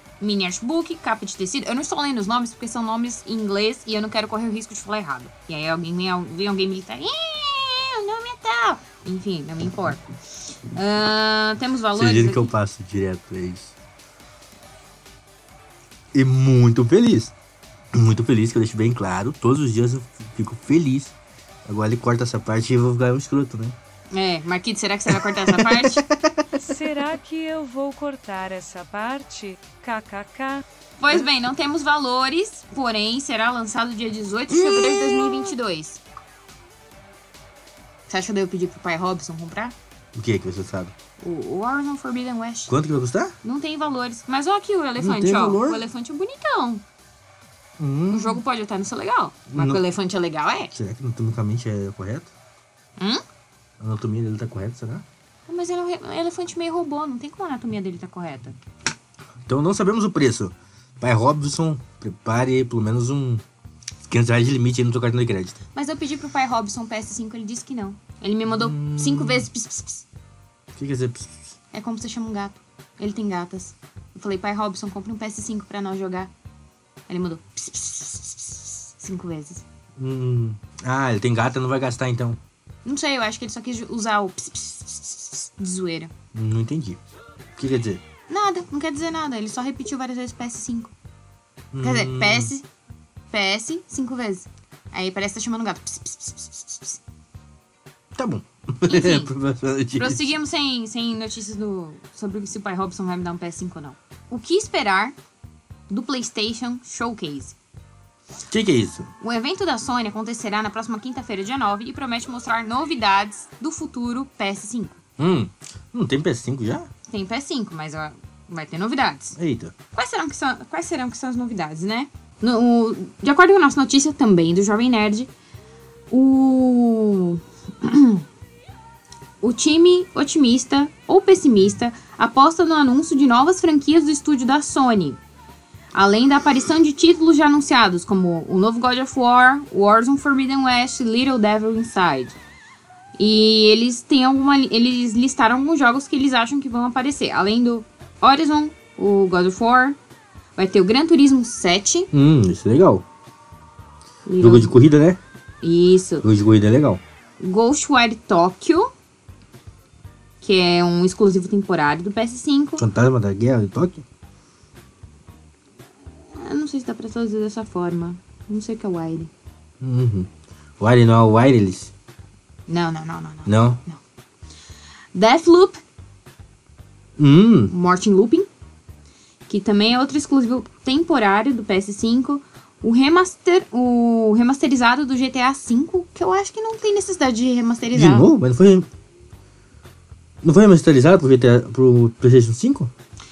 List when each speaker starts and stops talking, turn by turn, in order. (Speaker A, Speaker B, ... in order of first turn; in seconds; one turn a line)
Speaker A: 0.2-10.0
Speaker A: 10.7-12.5
Speaker B: 11.9-13.7
Speaker B: 16.1-17.3
Speaker B: 17.9-21.1
Speaker B: 21.7-23.8
Speaker A: 24.1-26.1
Speaker B: 25.1-26.6
Speaker C: 26.6-30.6
Speaker A: 31.0-36.0
Speaker B: 34.5-35.5
Speaker A: 38.1-39.8
Speaker B: 40.1-40.9
Speaker A: 41.2-42.7
Speaker B: 42.7-43.4
Speaker A: 43.4-46.8
Speaker B: 45.0-45.8
Speaker B: 47.8-48.4
Speaker A: 48.1-50.7
Speaker B: 49.5-49.8
Speaker B: 50.7-52.3
Speaker A: 53.0-53.2
Speaker B: 53.8-55.1
Speaker A: 55.5-58.6
Speaker B: 59.5-63.4
Speaker B: 64.1-65.6
Speaker A: 65.8-70.0
Speaker B: 68.5-69.5
Speaker B: 70.8-71.5
Speaker A: 71.7-76.3
Speaker A: 77.1-79.6
Speaker B: 80.0-82.4
Speaker A: 82.8-86.1
Speaker B: 86.3-87.0
Speaker B: 87.6-88.0
Speaker A: 88.3-90.9
Speaker B: 91.7-92.5
Speaker A: 91.8-92.7
Speaker A: 93.3-97.0
Speaker B: 98.2-100.3
Speaker A: 98.9-99.3
Speaker A: 100.0-105.2
Speaker A: 105.9-107.6
Speaker B: 108.5-109.1
Speaker A: 109.2-115.0
Speaker B: 115.2-116.9
Speaker A: 117.1-119.4
Speaker B: 119.4-119.7
Speaker A: 119.9-125.3
Speaker A: 126.1-128.2
Speaker A: 129.4-135.2
Speaker A: 135.9-142.4
Speaker A: 143.2-150.0
Speaker A: 150.6-152.1
Speaker B: 152.1-153.0
Speaker A: 154.3-154.8
Speaker B: 154.4-155.2
Speaker A: 155.6-156.3
Speaker B: 156.2-157.0
Speaker A: 157.4-158.9
Speaker A: 160.4-162.8
Speaker B: 162.8-164.0
Speaker A: 166.3-169.3
Speaker B: 169.8-170.3
Speaker B: 170.8-171.9
Speaker A: 172.7-174.0
Speaker B: 173.5-173.8
Speaker A: 175.1-175.8
Speaker B: 177.2-177.7
Speaker A: 177.7-178.5
Speaker A: 179.5-188.3
Speaker B: 187.9-188.9
Speaker B: 190.4-192.9